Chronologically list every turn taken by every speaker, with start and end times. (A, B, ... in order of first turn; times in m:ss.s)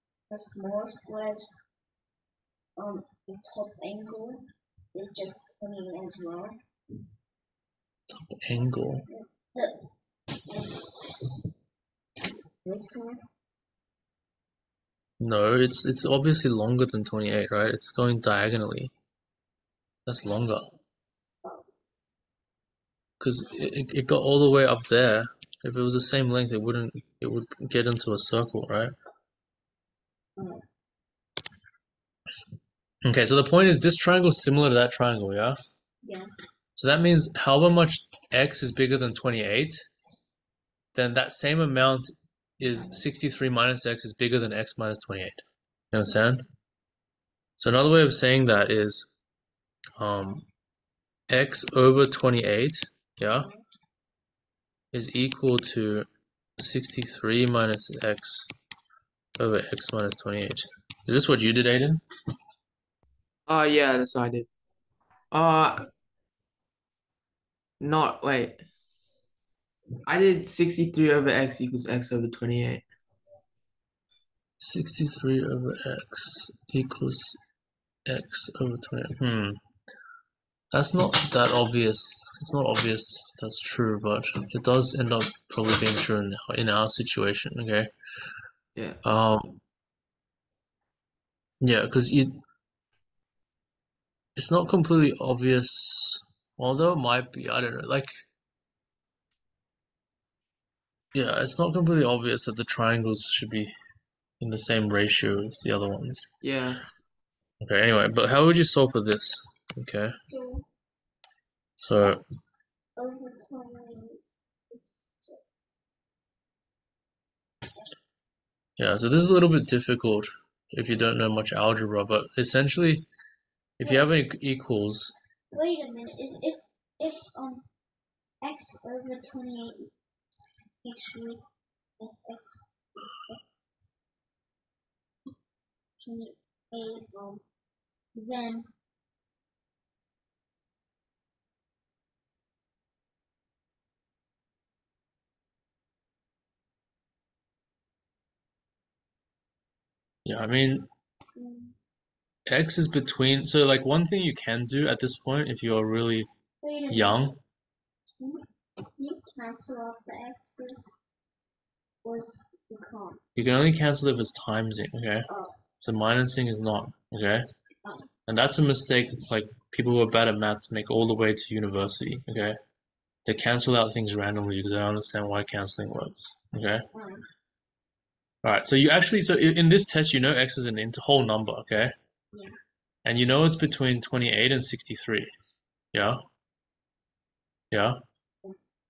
0:00.3-0:01.5 A
0:02.8-0:06.6 A
0:08.1-0:09.0 B
0:09.1-0:09.8 A
0:12.6-0:13.2 A
0:15.2-0:18.9 B
0:20.0-0:20.7 B
0:23.2-0:28.9 B
0:30.4-0:30.6 A
0:33.0-0:35.6 B
0:36.0-0:36.3 A
0:36.8-0:39.9 B
0:40.9-0:46.5 B
0:47.6-0:49.1 B
0:50.0-0:50.4 B
0:51.3-0:53.5 B
0:54.9-0:58.5 B
0:59.4-1:02.0 B
1:03.5-1:04.5 C
1:05.3-1:05.9 C
1:07.8-1:08.6 C
1:10.0-1:12.8 C
1:14.6-1:17.4 B
1:18.0-1:19.6 B
1:20.7-1:27.9 B
1:29.0-1:29.6 B
1:31.6-1:32.4 B
1:34.4-1:38.2 B
1:41.1-1:43.7 B
1:44.4-1:46.3 B
1:46.4-1:46.8 C
1:47.6-1:50.2 B
1:50.3-1:50.6 A
1:51.8-1:52.2 B
1:52.0-1:52.4 A
1:53.0-1:55.4 A
1:58.8-2:03.0 B
2:03.8-2:05.1 B
2:03.8-2:04.1 A
2:05.5-2:07.6 A
2:08.4-2:11.4 A
2:12.0-2:12.6 A
2:16.0-2:17.4 A
2:18.1-2:18.7 A
2:30.2-2:30.9 B
2:31.4-2:31.7 A
2:32.5-2:36.3 B
2:36.6-2:37.3 A
2:36.9-2:37.4 B
2:39.0-2:40.9 A
2:42.0-2:43.2 A
2:43.4-2:45.3 B
2:45.3-2:45.5 A
2:45.8-2:47.5 B
2:47.8-2:48.1 A
2:48.3-2:52.6 B
2:53.2-2:56.8 B
2:56.9-2:57.2 A
2:58.4-3:01.9 B
3:03.0-3:05.3 B
3:05.9-3:06.2 B
3:07.7-3:08.0 B